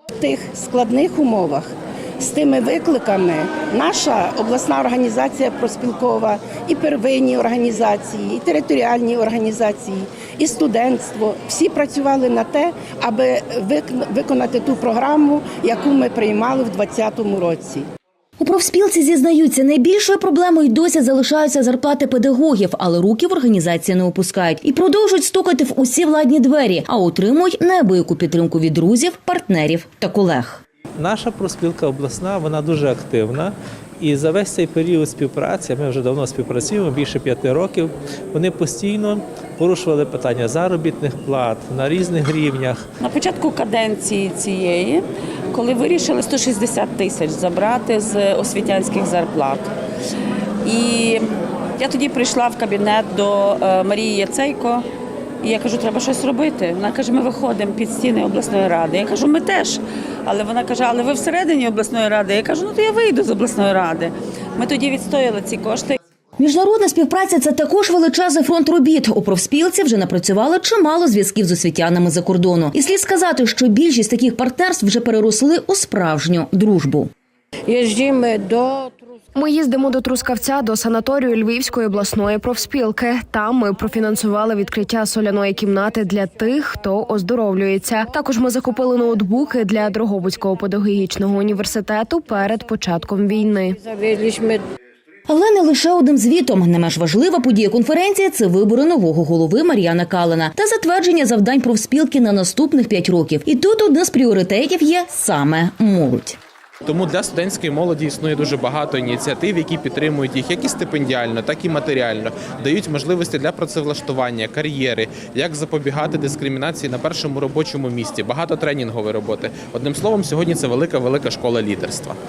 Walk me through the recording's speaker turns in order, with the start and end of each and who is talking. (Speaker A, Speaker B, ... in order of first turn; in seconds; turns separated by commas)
Speaker A: 0.2-17.9, Speaker B: 18.4-30.6, Speaker C: 31.0-42.8, Speaker D: 43.0-49.7, Speaker D: 50.6-54.8, Speaker D: 55.4-66.0, Speaker B: 66.4-77.1, Speaker E: 77.7-79.0, Speaker F: 79.3-93.8, Speaker E: 93.8-94.6, Speaker B: 95.3-106.4, Speaker G: 106.8-122.2